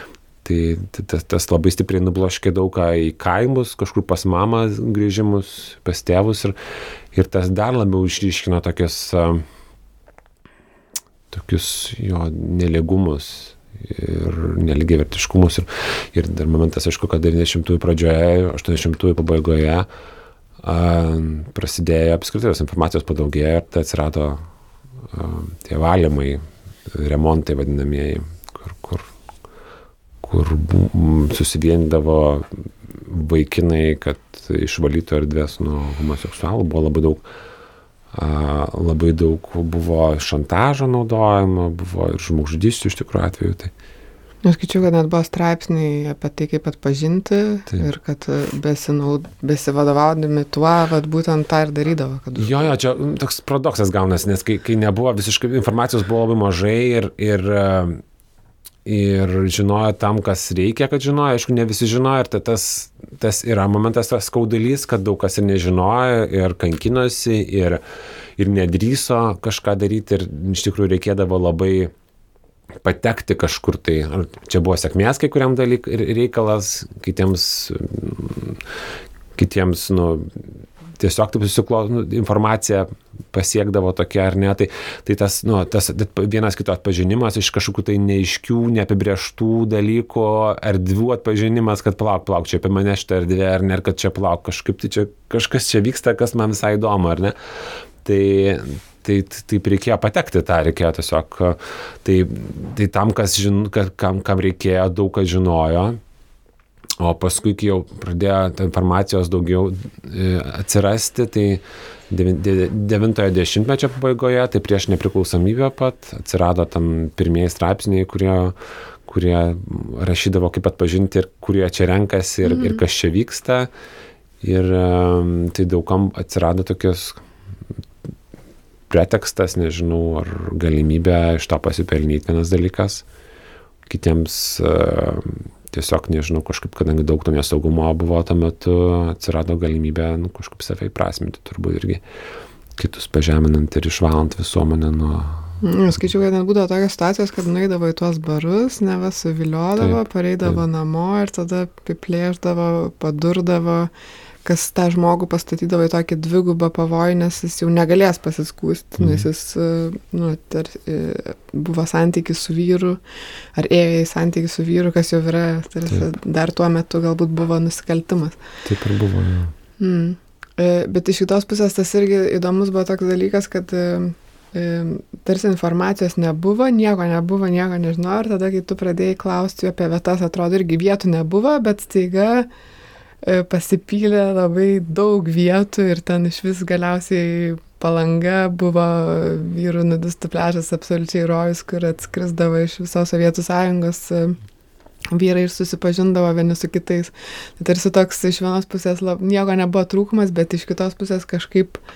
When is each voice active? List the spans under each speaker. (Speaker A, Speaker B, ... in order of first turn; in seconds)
Speaker A: 0.4-6.5, 7.1-9.4, 11.3-19.9, 20.6-24.4, 25.1-29.1, 30.2-37.2, 38.1-43.7, 52.4-58.0, 58.9-67.8, 68.4-71.9, 72.8-78.6, 79.4-80.3, 81.0-97.4, 98.0-106.0, 107.0-118.5, 119.1-123.7, 124.4-127.2, 128.9-133.0, 133.9-142.0, 142.8-145.5, 149.8-150.6, 159.0-159.2, 168.7-169.5
Speaker B: 44.4-52.7, 122.4-122.8, 145.6-153.9, 154.4-163.0, 163.5-168.4, 169.8-182.5, 183.2-194.4, 195.1-201.8